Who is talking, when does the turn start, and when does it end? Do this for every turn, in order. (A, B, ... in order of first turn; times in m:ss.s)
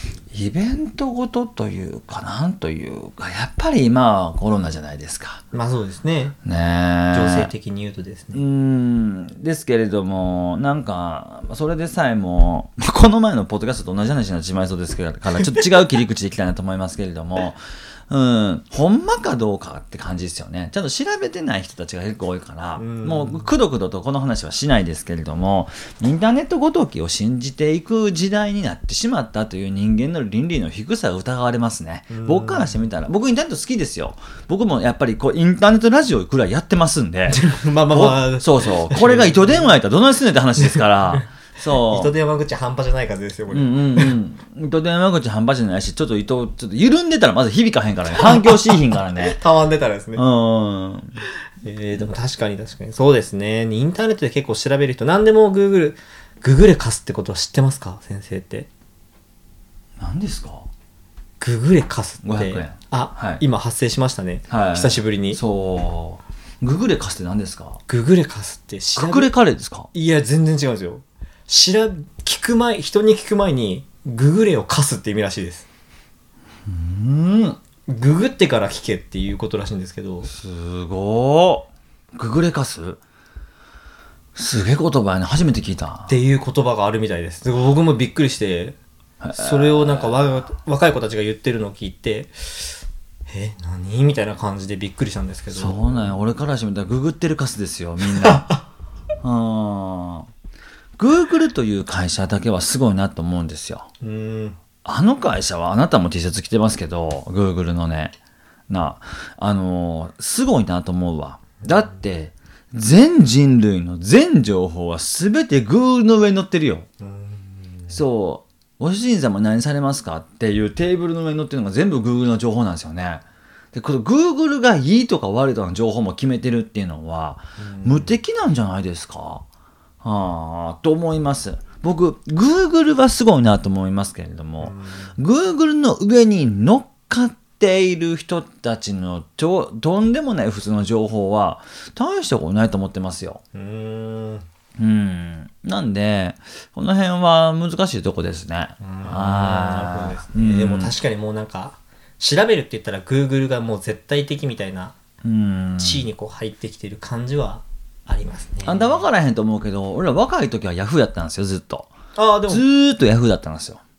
0:00.3-0:05.4 A
0:05.5-0:06.4 B
0:06.4-0:07.5 A
0:07.1-0:08.4 B
0:08.3-0:42.1 A
0:22.8-0:23.5 B
0:32.1-0:32.8 B
0:37.3-0:39.8 B
0:40.6-0:44.2 B
0:43.5-0:49.4 A
0:48.1-0:50.2 B
0:50.2-0:51.2 A
0:51.6-0:58.7 B
1:00.0-1:00.7 A
1:01.4-1:05.4 B
1:02.2-1:03.4 A
1:04.5-1:07.8 A
1:07.9-1:09.3 B
1:09.0-1:09.9 A
1:09.9-1:15.6 B
1:16.7-1:17.6 A
1:17.9-1:20.3 B
1:20.3-1:23.0 A
1:24.3-1:26.1 A
1:26.1-1:28.8 B
1:29.2-1:30.5 A
1:29.3-1:36.1 B
1:35.5-1:38.6 A
1:39.2-1:40.3 A
1:41.0-1:43.9 A
1:44.0-1:44.6 B
1:44.8-1:48.1 A
1:48.7-1:56.9 A
1:57.0-1:58.0 B
1:57.9-2:03.2 A
2:03.7-2:09.4 A
2:07.6-2:08.2 B
2:10.0-2:23.4 A
2:14.6-2:15.2 B
2:23.5-2:24.4 B
2:24.8-2:30.9 A
2:28.8-2:34.9 B
2:35.2-2:36.1 A
2:35.8-2:39.0 B
2:38.6-2:41.9 A
2:42.1-2:42.6 B
2:42.5-2:43.8 A